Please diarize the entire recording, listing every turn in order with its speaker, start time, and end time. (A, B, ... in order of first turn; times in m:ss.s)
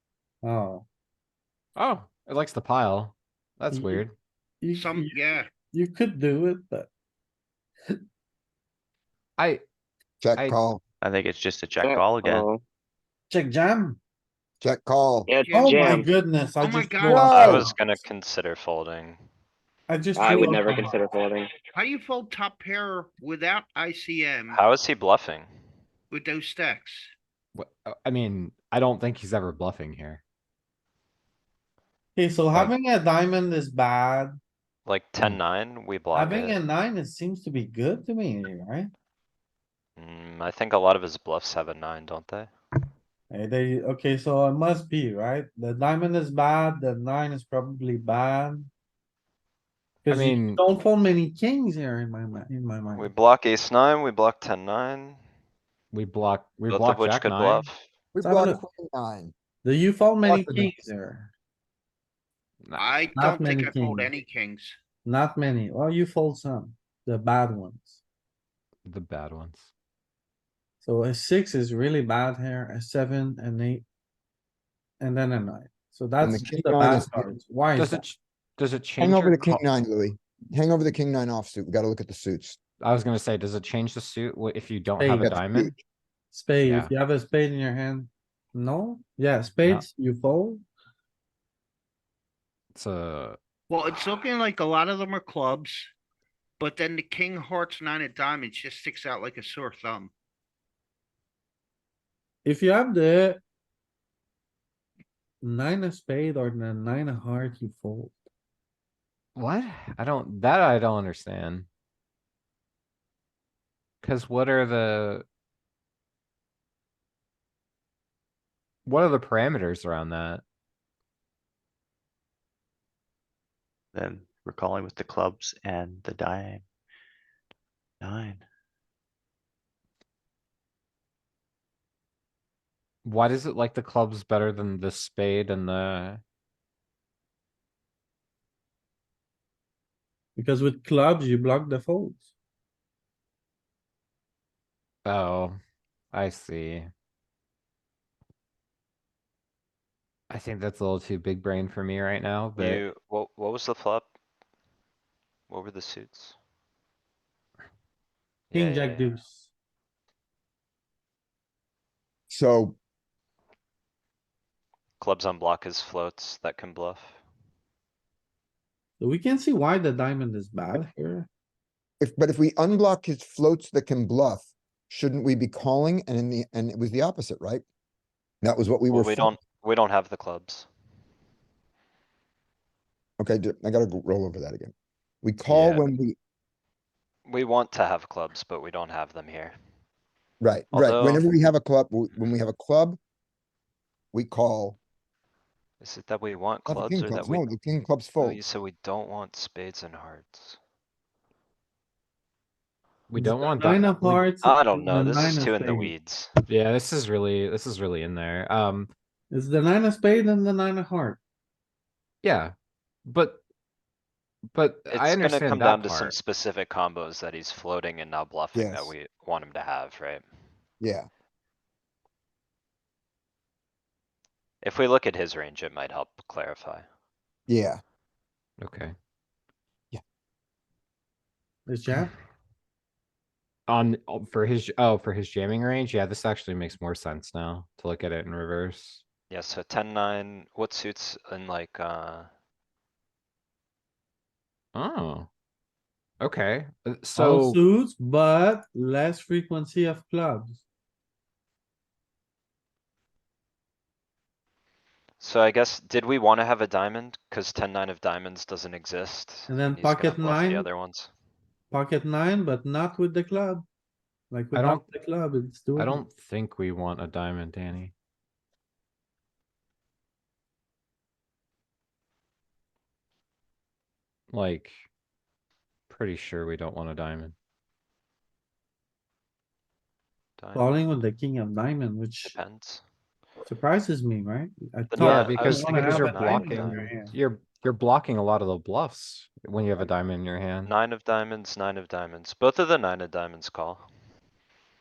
0:00.4-0:00.9 A
0:01.8-0:04.1 B
0:03.7-0:04.0 A
0:04.6-0:05.2 A
0:04.7-0:05.5 C
0:05.7-0:06.9 A
0:09.4-0:09.6 B
0:10.2-0:10.8 D
0:11.0-0:12.5 E
0:11.8-0:12.6 F
0:13.3-0:14.0 A
0:14.6-0:15.3 D
0:15.3-0:16.1 F
0:15.4-0:16.0 C
0:15.5-0:17.8 A
0:16.6-0:17.6 C
0:17.0-0:17.7 D
0:17.3-0:19.2 G
0:19.9-0:21.0 A
0:20.2-0:21.5 F
0:21.7-0:24.6 C
0:24.5-0:25.5 G
0:26.1-0:27.1 C
0:27.5-0:30.2 B
0:32.1-0:34.4 A
0:34.8-0:36.6 G
0:36.1-0:38.9 A
0:40.0-0:42.5 G
0:43.3-0:48.7 A
0:50.0-0:53.1 A
0:50.1-0:50.6 B
0:52.9-0:55.2 G
0:55.9-0:57.7 B
0:56.7-0:57.8 G
0:58.1-0:59.3 D
0:58.2-0:58.6 A
0:59.6-1:01.3 A
1:00.2-1:00.7 B
1:02.8-1:04.8 C
1:03.1-1:04.1 A
1:05.0-1:08.0 A
1:08.8-1:09.7 B
1:10.8-1:13.8 A
1:15.0-1:18.0 A
1:16.2-1:17.2 D
1:17.7-1:19.6 B
1:19.0-1:22.6 D
1:22.8-1:25.7 B
1:25.0-1:25.4 A
1:25.2-1:25.7 D
1:26.3-1:30.6 A
1:26.6-1:26.9 B
1:32.7-1:33.4 B
1:33.7-1:35.9 C
1:36.6-1:40.1 C
1:42.4-1:43.4 A
1:45.4-1:48.2 A
1:49.3-1:51.7 B
1:54.0-1:55.2 B
1:58.8-2:00.4 B
2:03.9-2:06.6 E
2:08.0-2:08.4 E
2:13.0-2:16.2 B
2:20.4-2:22.3 A
2:25.0-2:25.6 B
2:26.1-2:26.9 B
2:30.3-2:32.8 B
2:32.6-2:34.1 G
2:35.5-2:36.3 G
2:38.5-2:39.2 G
2:38.5-2:39.5 A
2:42.3-2:42.8 D
2:45.0-2:47.2 G
2:49.0-2:51.3 A
2:52.0-2:57.6 D
2:58.4-2:59.3 D
2:58.9-3:00.7 G
3:03.2-3:06.2 D
3:05.4-3:05.9 G
3:07.2-3:09.6 G
3:10.4-3:13.0 D
3:10.7-3:11.5 G
3:14.1-3:14.8 D
3:15.8-3:17.5 G
3:16.7-3:18.4 D
3:18.2-3:20.6 G
3:23.1-3:24.3 B
3:23.1-3:25.9 A
3:24.4-3:26.3 G
3:26.5-3:28.9 B
3:29.3-3:31.2 A
3:32.2-3:32.5 B
3:33.0-3:33.4 B
3:34.5-3:36.2 B
3:34.9-3:40.2 G
3:38.5-3:38.9 D
3:40.8-3:41.1 D
3:44.6-3:46.8 G
3:47.5-3:47.8 D
3:48.6-3:48.9 B
3:51.6-3:52.1 A
3:53.7-3:59.0 B
3:59.3-4:02.3 G
4:04.7-4:05.3 B
4:06.2-4:07.6 B
4:07.2-4:10.6 A
4:15.2-4:21.1 G
4:19.5-4:20.7 A
4:21.7-4:23.7 A
4:24.3-4:26.0 A
4:24.5-4:24.8 B
4:25.8-4:27.9 B
4:34.3-4:34.8 B
4:35.9-4:37.3 B
4:40.4-4:40.7 G
4:40.5-4:42.4 A
4:42.2-4:42.8 G
4:43.5-4:47.1 A
4:44.9-4:46.8 G
4:44.9-4:50.7 B
4:50.6-4:53.8 G